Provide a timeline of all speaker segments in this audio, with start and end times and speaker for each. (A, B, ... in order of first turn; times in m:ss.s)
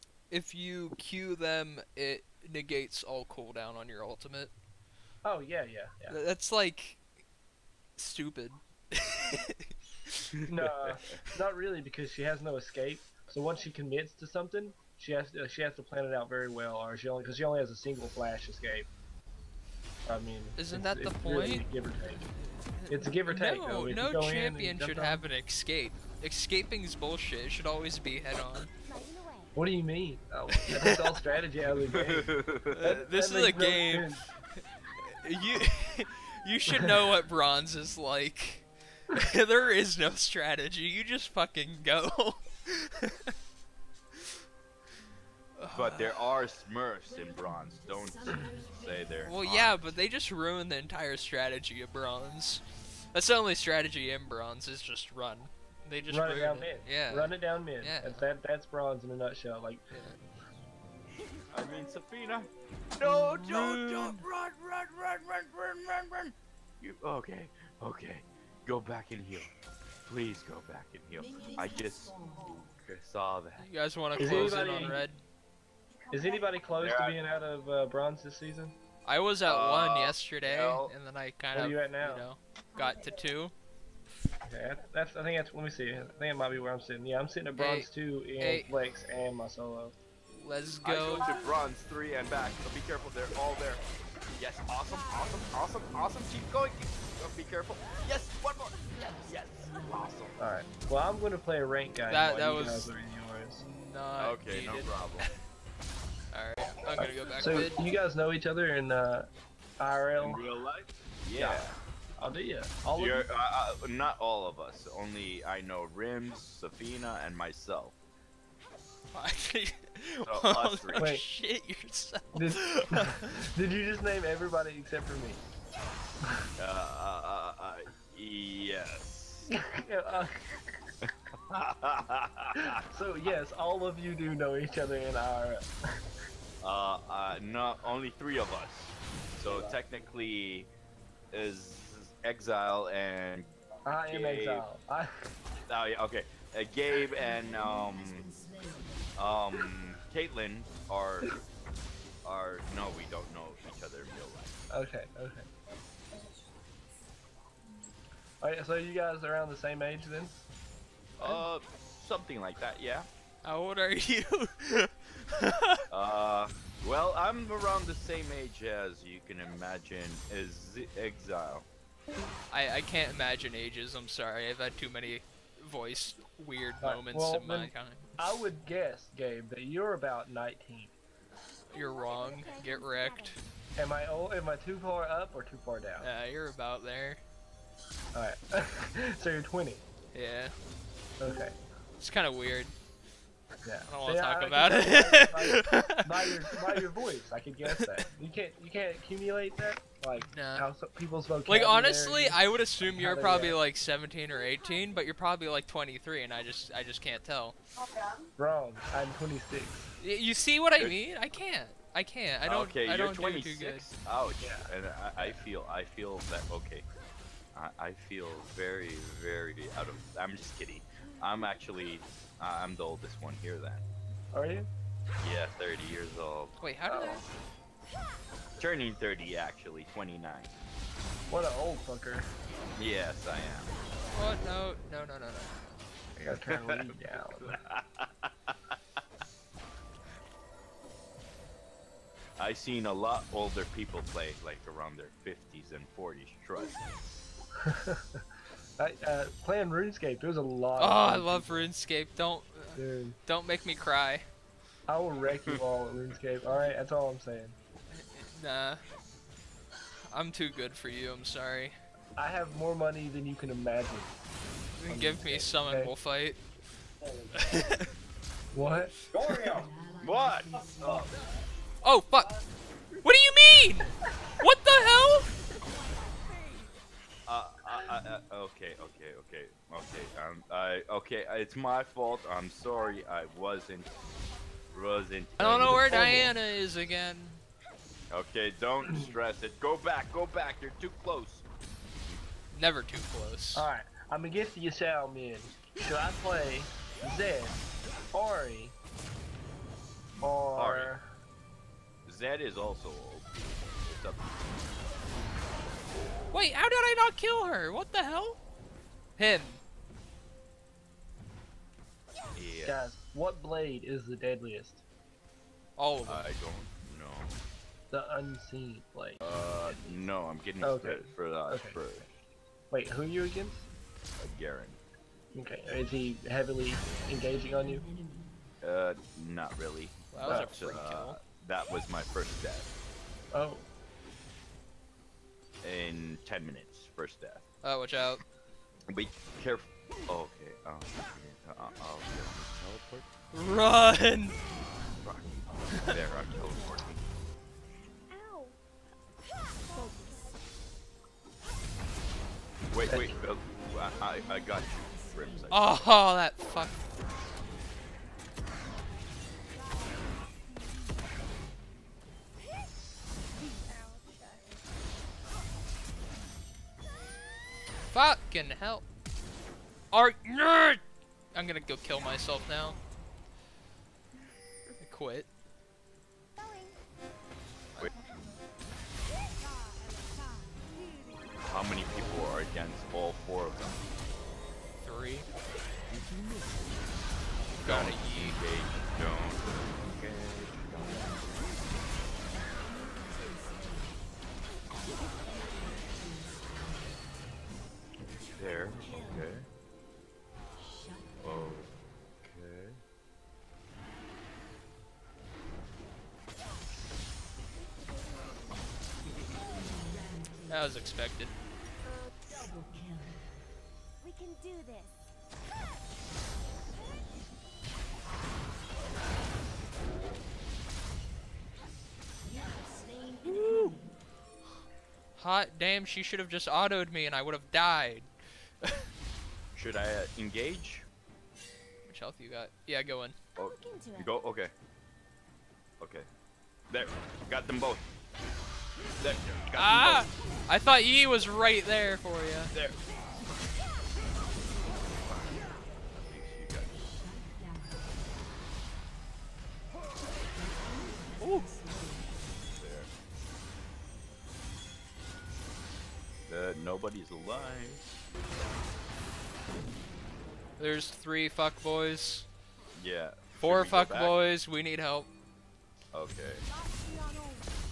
0:00.3-0:04.5 A
0:05.2-0:06.2 B
0:06.1-0:07.0 A
0:08.0-0:09.7 A
0:10.5-0:18.9 B
0:10.8-0:11.2 C
0:20.1-0:22.3 B
0:20.6-0:21.6 A
0:22.8-0:28.7 A
0:22.9-0:25.3 B
0:28.9-0:29.5 D
0:29.6-0:34.2 B
0:30.6-0:31.2 A
0:31.9-0:33.0 C
0:32.7-0:43.3 A
0:45.6-0:46.2 A
0:45.7-0:50.0 C
0:49.2-0:58.2 A
0:56.1-0:59.9 B
0:59.9-1:00.2 A
1:01.5-1:09.5 C
1:03.5-1:04.2 A
1:10.1-1:14.8 C
1:13.6-1:15.2 A
1:14.2-1:15.0 B
1:16.1-1:18.8 B
1:16.8-1:17.2 C
1:19.0-1:23.5 A
1:19.5-1:21.0 C
1:21.5-1:22.3 B
1:24.4-1:30.0 B
1:27.5-1:28.7 A
1:30.4-1:31.3 A
1:30.8-1:33.8 C
1:34.4-1:40.4 C
1:40.4-1:43.6 B
1:42.1-1:42.9 A
1:43.6-1:45.3 A
1:44.2-1:45.3 C
1:46.3-1:47.7 A
1:47.0-1:50.4 B
1:50.2-1:52.3 C
1:51.4-1:53.3 B
1:53.0-1:58.0 C
1:59.1-2:03.3 A
2:00.2-2:01.1 C
2:01.0-2:01.2 B
2:02.3-2:05.4 B
2:06.6-2:09.5 C
2:09.5-2:10.5 B
2:11.5-2:12.8 C
2:12.6-2:15.7 B
2:16.6-2:20.7 C
2:21.3-2:23.5 C
2:23.9-2:25.3 B
2:24.1-2:24.7 C
2:25.7-2:28.4 C
2:29.2-2:31.4 C
2:32.2-2:34.6 C
2:34.7-2:35.5 B
2:38.4-2:40.4 B
2:41.2-2:43.1 C
2:43.4-2:45.8 A
2:45.9-2:51.7 C
2:52.5-2:58.0 A
2:56.8-3:01.0 B
3:01.7-3:03.4 A
3:02.1-3:03.4 D
3:03.8-3:06.1 B
3:06.0-3:07.2 A
3:08.1-3:09.8 B
3:10.1-3:10.6 A
3:11.2-3:11.6 B
3:12.0-3:12.8 A
3:13.6-3:23.6 B
3:13.9-3:16.0 A
3:20.2-3:20.6 A
3:21.5-3:27.6 A
3:28.4-3:29.9 B
3:30.0-3:33.9 A
3:32.5-3:36.9 C
3:34.4-3:35.4 B
3:37.5-3:43.9 C
3:44.3-3:44.7 B
3:45.2-3:46.6 C
3:46.6-3:47.2 A
3:46.9-3:47.3 B
3:48.6-3:50.5 C
3:51.3-3:52.3 B
3:52.8-3:53.7 C
3:54.1-3:55.6 A
3:56.2-3:58.8 C
3:56.2-3:57.6 B
4:02.4-4:06.8 C
4:07.6-4:08.2 B
4:08.8-4:11.7 B
4:10.8-4:14.3 A
4:12.8-4:13.2 B
4:14.9-4:17.6 B
4:17.9-4:18.8 A
4:20.1-4:21.8 A
4:22.2-4:24.2 B
4:24.8-4:26.4 A
4:24.9-4:25.9 B
4:27.4-4:27.9 A
4:28.5-4:29.6 B
4:30.0-4:31.1 C
4:31.8-4:32.3 A
4:33.0-4:35.3 A
4:37.3-4:43.9 C
4:44.7-4:46.3 C
4:45.4-4:47.4 A
4:45.6-4:46.4 B
4:48.1-4:51.5 C
4:52.5-4:53.7 A
4:53.6-4:58.8 B
5:00.2-5:01.1 B
5:00.6-5:00.9 C
5:02.1-5:04.3 C
5:06.3-5:08.4 A
5:09.2-5:09.6 A
5:12.4-5:12.8 C
5:12.6-5:14.8 B
5:15.8-5:16.3 A
5:16.0-5:17.4 C
5:17.9-5:20.0 B
5:19.2-5:22.1 C
5:20.6-5:21.8 B
5:22.7-5:23.7 B
5:24.2-5:24.8 C
5:25.3-5:27.9 B
5:28.6-5:32.7 C
5:30.1-5:31.2 A
5:30.2-5:30.6 B
5:33.3-5:33.7 B
5:35.6-5:37.5 C
5:37.6-5:38.2 A
5:38.9-5:43.1 C
5:43.3-5:44.4 A
5:45.0-5:47.0 C
5:48.1-5:48.6 D
5:49.7-5:50.4 D
5:52.7-5:55.9 C
5:52.9-5:53.2 B
5:55.5-5:56.8 A
6:03.6-6:04.6 D
6:07.9-6:08.8 A
6:09.9-6:10.8 A
6:11.3-6:12.8 A
6:14.8-6:15.3 A
6:16.4-6:16.8 D
6:21.4-6:23.9 C
6:24.8-6:25.3 A
6:25.9-6:26.7 C
6:27.6-6:31.6 C
6:27.6-6:28.4 A
6:38.3-6:39.5 C
6:41.2-6:42.8 C
6:50.5-6:51.4 A
6:54.0-6:54.9 D
7:03.2-7:03.8 A
7:05.2-7:08.8 A
7:09.5-7:10.9 C
7:11.8-7:13.2 A
7:13.4-7:14.5 C
7:13.4-7:14.1 D
7:15.8-7:16.1 C
7:16.7-7:17.9 C
7:19.0-7:20.1 C
7:19.6-7:22.5 A
7:22.5-7:22.8 C
7:24.8-7:27.1 C
7:31.2-7:31.5 A
7:32.5-7:32.9 C
7:36.3-7:38.0 C
7:40.6-7:42.3 A
7:42.8-7:44.2 C
7:43.4-7:45.1 A
7:45.9-7:46.5 C
7:46.6-7:47.5 D